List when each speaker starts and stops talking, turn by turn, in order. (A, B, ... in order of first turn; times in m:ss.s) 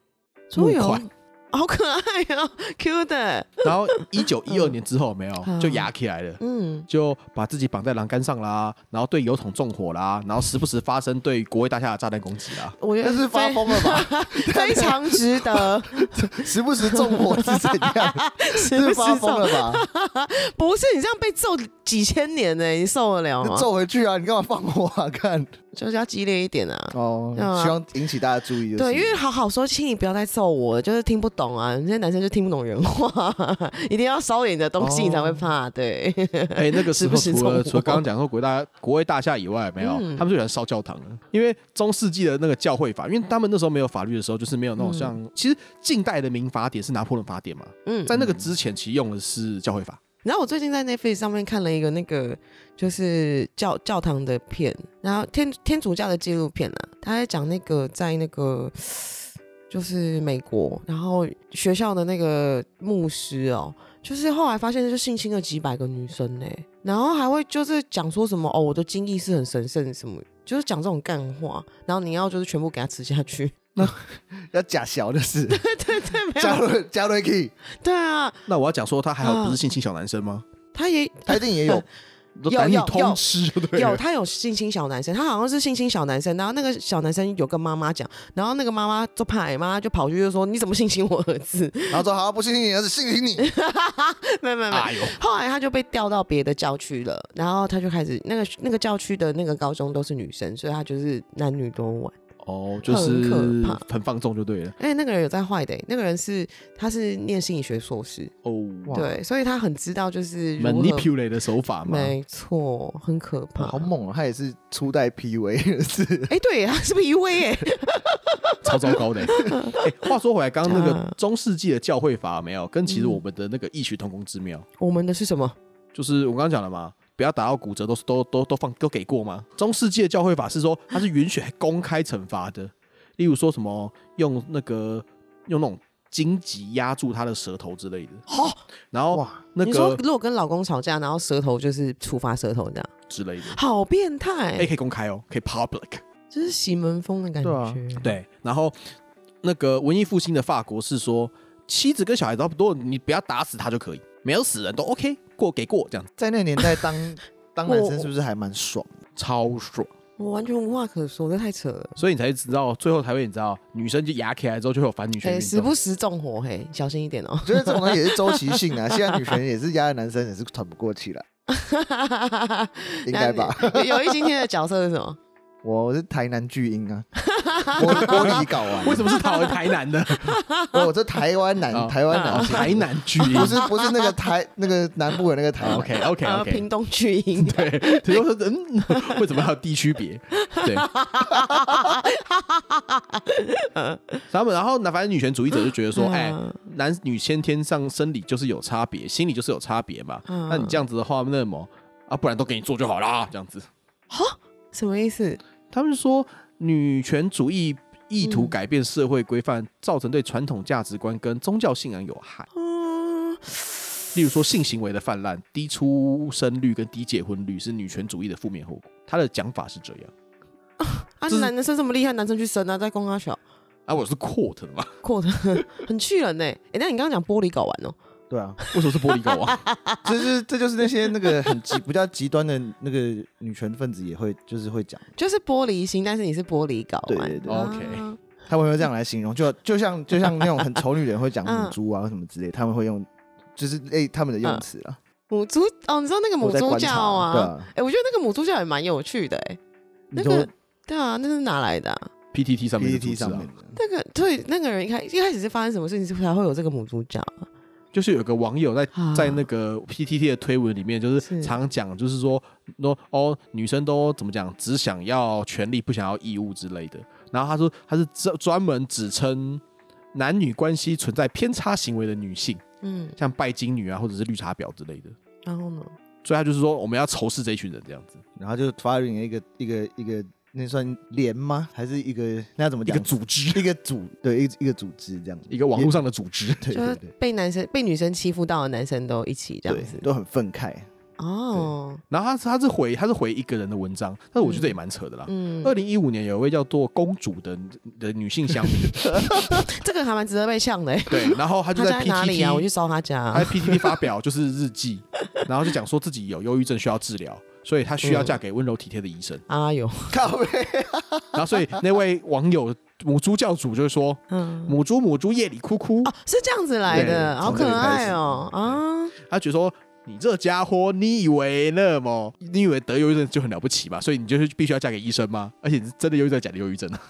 0:00.5-0:04.7 A
0:00.5-0:01.0 B
0:03.6-0:12.7 B
0:05.4-0:06.9 A
0:12.8-0:23.7 A
0:13.0-0:19.8 C
0:23.4-0:25.5 C
0:25.7-0:27.8 A
0:26.9-0:29.2 C
0:28.7-0:38.0 A
0:34.8-0:35.5 C
0:36.6-0:50.0 B
0:39.8-0:40.3 A
0:44.8-0:45.2 A
0:47.8-0:48.3 A
0:50.2-1:13.5 A
1:13.8-1:15.6 C
1:15.5-1:16.6 A
1:16.3-1:17.5 C
1:17.7-1:18.4 A
1:18.5-1:20.4 B
1:19.2-1:19.6 A
1:20.7-1:21.8 A
1:21.3-1:21.8 C
1:22.4-1:24.0 B
1:22.5-1:23.2 A
1:23.7-1:32.0 A
1:31.9-1:33.5 C
1:33.4-1:42.2 A
1:34.7-1:35.2 B
1:42.4-1:44.7 B
1:42.8-1:43.8 A
1:44.8-1:48.3 A
1:48.4-1:49.0 B
1:48.8-1:49.1 C
1:48.9-1:51.1 A
1:50.6-1:52.1 B
1:51.8-1:53.9 A
1:53.6-1:56.3 C
1:56.3-1:59.8 A
1:58.6-2:04.6 B
2:00.7-2:01.2 A
2:02.9-2:03.2 A
2:04.8-2:05.6 A
2:05.9-2:18.2 B
2:18.3-2:18.6 A
2:18.9-2:20.0 B
2:19.1-2:19.4 C
2:19.6-2:22.9 A
2:23.1-2:23.6 B
2:23.4-2:24.7 A
2:24.6-2:26.0 B
2:26.3-2:28.1 A
2:27.4-2:27.8 C
2:28.0-2:28.8 B
2:29.4-2:36.1 B
2:36.2-2:39.0 C
2:37.6-2:38.1 A
2:39.2-2:39.9 B
2:40.2-2:42.0 A
2:42.0-2:45.7 B
2:45.2-2:49.4 A
2:47.4-2:51.2 C
2:51.5-2:55.2 A
2:53.0-2:54.3 C
2:55.6-2:57.1 C
2:57.2-3:00.8 A
2:57.7-2:59.1 C
2:57.8-3:00.4 B
3:00.7-3:05.9 C
3:01.7-3:03.6 B
3:02.1-3:04.1 A
3:05.6-3:06.6 B
3:06.2-3:08.2 A
3:07.4-3:10.9 B
3:08.9-3:09.2 A
3:10.3-3:14.2 A
3:14.3-3:23.7 B
3:15.6-3:16.6 A
3:20.3-3:20.8 A
3:24.1-3:25.4 A
3:25.7-3:32.5 B
3:28.2-3:28.5 A
3:32.5-3:34.0 A
3:34.1-3:40.1 B
3:40.8-3:43.4 A
3:43.9-3:44.9 B
3:45.0-3:48.0 A
3:48.3-3:48.6 C
3:48.6-3:50.1 A
3:48.7-3:49.6 B
3:50.0-3:55.0 C
3:51.2-3:51.7 A
3:55.2-3:58.2 A
3:57.1-3:57.7 C
3:57.5-3:58.0 B
3:58.5-4:05.0 C
4:01.4-4:01.8 A
4:05.3-4:09.6 A
4:06.4-4:07.7 C
4:10.1-4:10.5 C
4:10.1-4:12.1 A
4:12.3-4:13.5 B
4:12.8-4:13.8 C
4:13.7-4:17.5 A
4:17.9-4:29.6 B
4:18.9-4:19.4 A
4:21.2-4:21.6 A
4:30.1-4:32.6 B
4:32.8-4:33.2 A
4:33.2-4:35.1 B
4:35.4-4:35.9 A
4:36.2-4:38.2 B
4:38.4-4:46.0 C
4:42.9-4:43.6 B
4:45.5-4:46.7 B
4:46.6-4:47.1 C
4:46.7-4:50.0 A
4:49.6-4:50.9 C
4:51.2-4:52.0 A
4:52.1-4:59.6 B
4:54.4-4:55.7 A
4:59.3-5:04.0 A
5:01.1-5:02.7 B
5:03.3-5:09.4 B
5:08.0-5:08.4 A
5:09.5-5:10.2 A
5:10.1-5:11.8 C
5:11.3-5:16.1 B
5:14.3-5:14.8 A
5:16.0-5:19.1 A
5:16.9-5:18.5 C
5:16.9-5:27.0 B